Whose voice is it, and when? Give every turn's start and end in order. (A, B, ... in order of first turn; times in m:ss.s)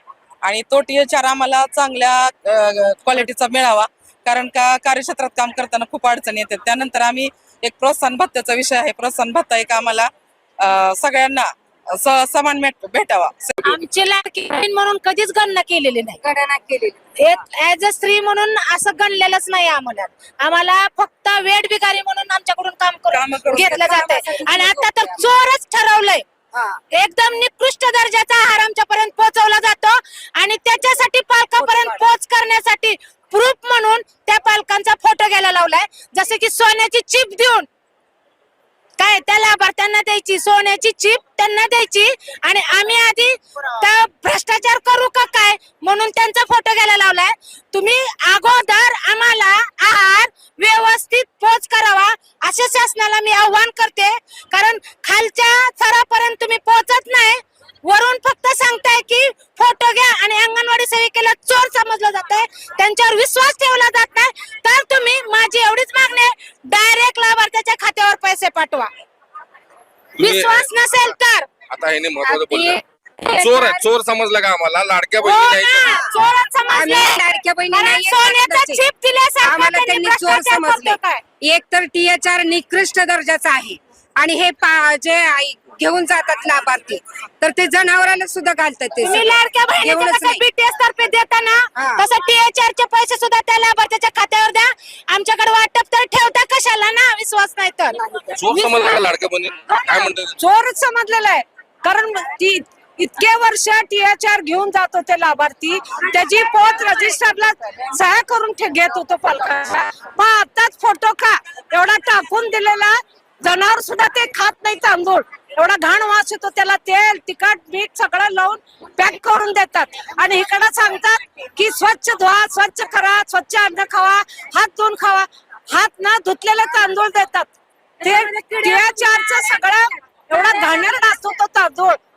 0:00.4-0:13.7 A
0:13.6-0:16.2 B
0:16.2-0:17.0 C
0:17.2-0:26.2 B
0:23.1-0:23.6 A
0:23.4-0:25.3 C
0:26.5-0:26.8 C
0:26.9-0:37.7 B
0:31.6-0:31.9 C
0:39.0-1:08.9 B
1:10.2-1:10.7 D
1:10.2-1:11.5 B
1:11.7-1:12.8 D
1:12.2-1:13.9 C
1:13.3-1:16.1 D
1:15.2-1:17.2 B
1:16.7-1:18.8 C
1:17.7-1:21.2 B
1:19.4-1:30.4 C
1:29.0-1:39.0 B
1:31.8-1:32.0 C
1:37.9-1:38.3 C
1:38.4-1:40.3 D
1:40.0-2:12.0 E
2:08.0-2:09.8 B
2:10.3-2:11.0 B